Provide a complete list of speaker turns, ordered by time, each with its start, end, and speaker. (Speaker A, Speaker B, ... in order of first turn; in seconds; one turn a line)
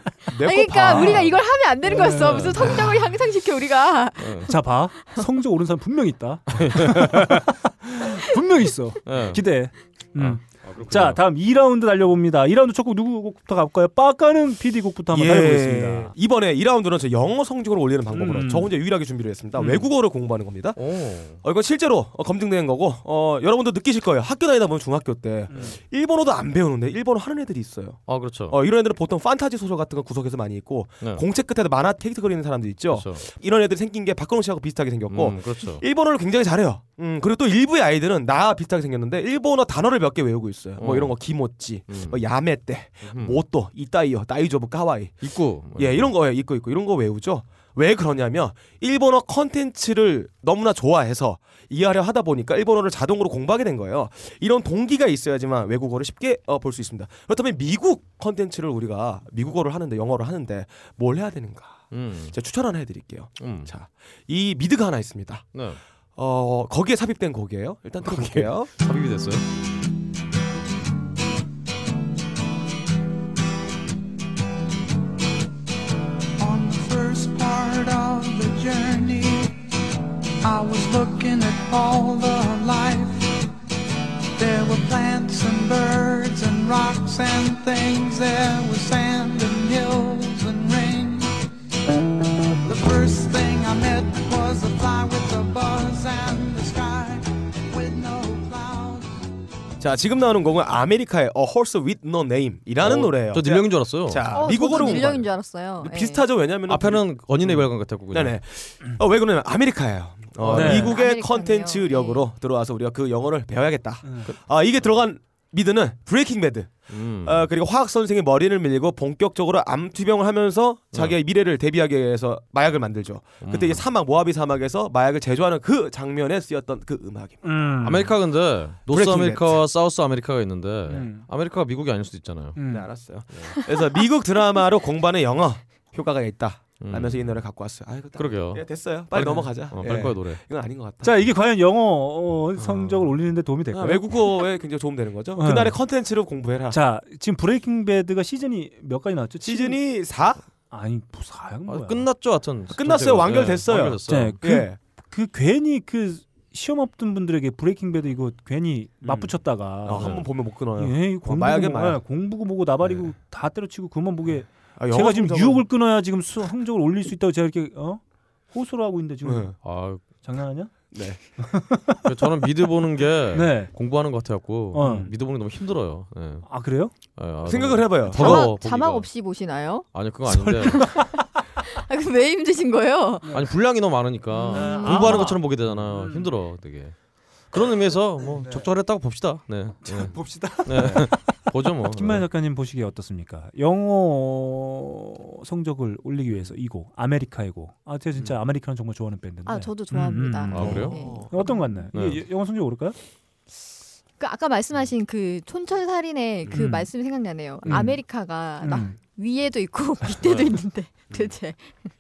Speaker A: 0.3-1.3
Speaker B: 0.5-4.5
Speaker C: 0.9-1.4
Speaker D: 1.9-2.5
Speaker C: 2.0-2.9
Speaker C: 4.2-4.5
Speaker D: 4.5-16.1
Speaker C: 6.5-7.5
Speaker C: 9.1-9.4
Speaker C: 10.2-11.2
Speaker A: 15.1-20.8
Speaker D: 18.1-18.7
Speaker C: 19.6-19.9
Speaker C: 20.8-21.4
Speaker A: 21.3-65.6
Speaker C: 28.1-28.6
Speaker C: 32.9-33.2
Speaker C: 35.1-35.8
Speaker C: 40.8-41.2
Speaker C: 41.9-42.3
Speaker C: 43.0-43.4
Speaker C: 45.2-46.1
Speaker C: 61.9-62.4
Speaker C: 63.4-63.7
Speaker C: 65.5-65.8
Speaker A: 66.2-68.7
Speaker C: 68.0-69.5
Speaker E: 76.4-79.6
Speaker E: 80.4-83.4
Speaker E: 84.4-91.4
Speaker E: 92.6-99.1
Speaker A: 99.8-105.3
Speaker C: 102.8-104.3
Speaker B: 104.3-106.2
Speaker C: 104.8-105.2
Speaker A: 105.8-127.4
Speaker C: 106.7-108.4
Speaker C: 110.4-110.7
Speaker D: 110.5-110.9
Speaker B: 110.6-112.3
Speaker D: 114.0-114.3
Speaker C: 116.9-117.5
Speaker C: 120.9-121.2
Speaker C: 123.4-123.9
Speaker D: 127.4-128.1
Speaker C: 127.8-132.6
Speaker A: 128.9-129.6
Speaker D: 130.9-131.3
Speaker D: 132.6-132.9
Speaker A: 132.7-141.3
Speaker C: 136.8-137.4
Speaker C: 138.2-140.4
Speaker D: 139.3-140.1
Speaker D: 141.0-144.1
Speaker A: 142.6-142.9
Speaker A: 143.7-146.8
Speaker D: 145.4-145.8
Speaker D: 146.7-149.8
Speaker A: 149.4-150.4
Speaker D: 150.7-152.1
Speaker C: 151.7-154.4
Speaker A: 152.7-154.8
Speaker D: 154.1-169.6
Speaker A: 159.0-159.3
Speaker A: 159.8-162.0
Speaker C: 159.9-160.3
Speaker A: 164.8-165.7
Speaker A: 169.2-169.6
Speaker C: 169.6-170.0
Speaker D: 170.2-172.1
Speaker A: 170.9-171.2
Speaker C: 172.1-176.5
Speaker D: 173.3-173.7
Speaker D: 174.7-175.1
Speaker A: 174.8-175.1
Speaker D: 176.4-176.9
Speaker C: 177.2-179.1
Speaker A: 177.4-178.5
Speaker B: 178.1-183.3
Speaker C: 179.9-181.1
Speaker C: 183.3-192.3
Speaker B: 184.4-185.4
Speaker D: 184.5-186.3
Speaker D: 188.4-188.7
Speaker D: 189.8-203.0
Speaker A: 190.8-191.1
Speaker B: 199.5-201.8
Speaker C: 200.5-201.0
Speaker A: 200.5-201.5
Speaker C: 201.9-202.2
Speaker B: 204.2-211.8
Speaker D: 206.5-206.9
Speaker D: 207.7-208.0
Speaker D: 208.6-209.0
Speaker C: 210.2-210.6